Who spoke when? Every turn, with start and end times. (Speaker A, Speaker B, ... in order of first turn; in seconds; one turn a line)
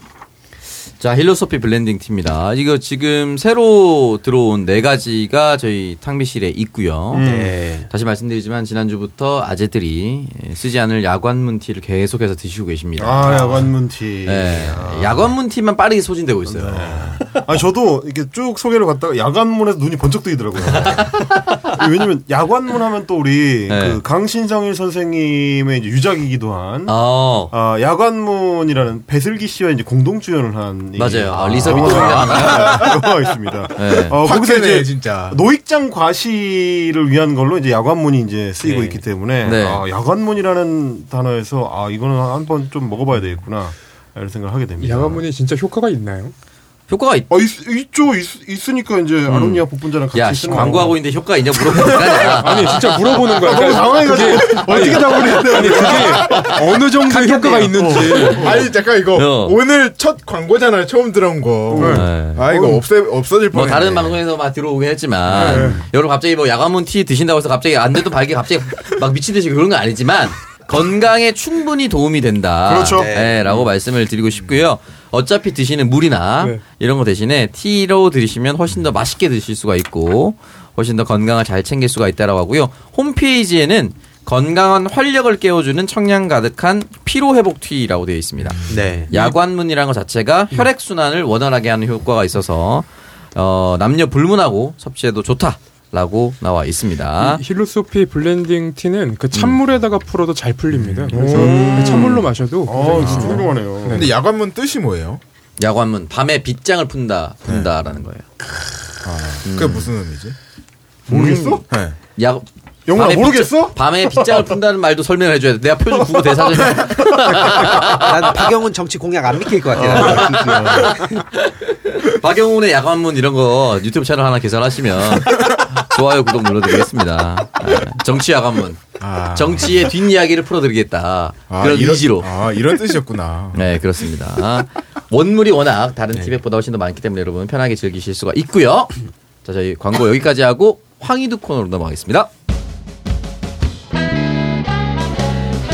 Speaker A: 1.0-7.3
Speaker B: 7.1-7.5
Speaker C: 7.2-7.9
Speaker A: 7.9-17.4
Speaker B: 13.0-15.3
Speaker B: 16.5-26.9
Speaker A: 20.6-21.6
Speaker A: 23.7-24.0
Speaker A: 26.9-27.5
Speaker B: 27.5-45.2
Speaker A: 31.0-32.9
Speaker D: 31.7-32.8
Speaker A: 33.8-34.2
Speaker D: 34.2-35.4
Speaker A: 38.6-39.8
Speaker E: 44.8-46.3
Speaker A: 46.9-47.3
Speaker B: 47.3-51.1
Speaker A: 49.3-56.4
Speaker E: 50.5-50.8
Speaker B: 51.6-52.6
Speaker E: 52.4-58.4
Speaker B: 53.3-58.6
Speaker D: 58.4-64.2
Speaker A: 59.1-59.6
Speaker B: 61.7-62.8
Speaker E: 61.8-62.0
Speaker A: 61.8-62.5
Speaker A: 63.5-97.4
Speaker D: 65.3-65.8
Speaker E: 65.4-65.8
Speaker B: 72.7-73.1
Speaker C: 72.9-73.6
Speaker D: 74.3-74.7
Speaker D: 88.4-88.8
Speaker C: 88.7-89.1
Speaker E: 97.2-104.1
Speaker D: 100.7-101.4
Speaker B: 101.1-104.1
Speaker A: 101.3-102.2
Speaker D: 103.0-105.2
Speaker A: 105.6-108.3
Speaker D: 109.0-110.4
Speaker A: 109.4-109.9
Speaker A: 111.1-111.6
Speaker B: 111.1-111.6
Speaker D: 111.7-112.0
Speaker A: 112.2-118.4
Speaker B: 112.9-114.5
Speaker B: 116.0-117.2
Speaker C: 117.9-120.8
Speaker B: 119.7-121.0
Speaker A: 120.0-132.3
Speaker D: 125.2-125.6
Speaker D: 129.0-129.9
Speaker D: 131.5-133.8
Speaker A: 133.5-142.3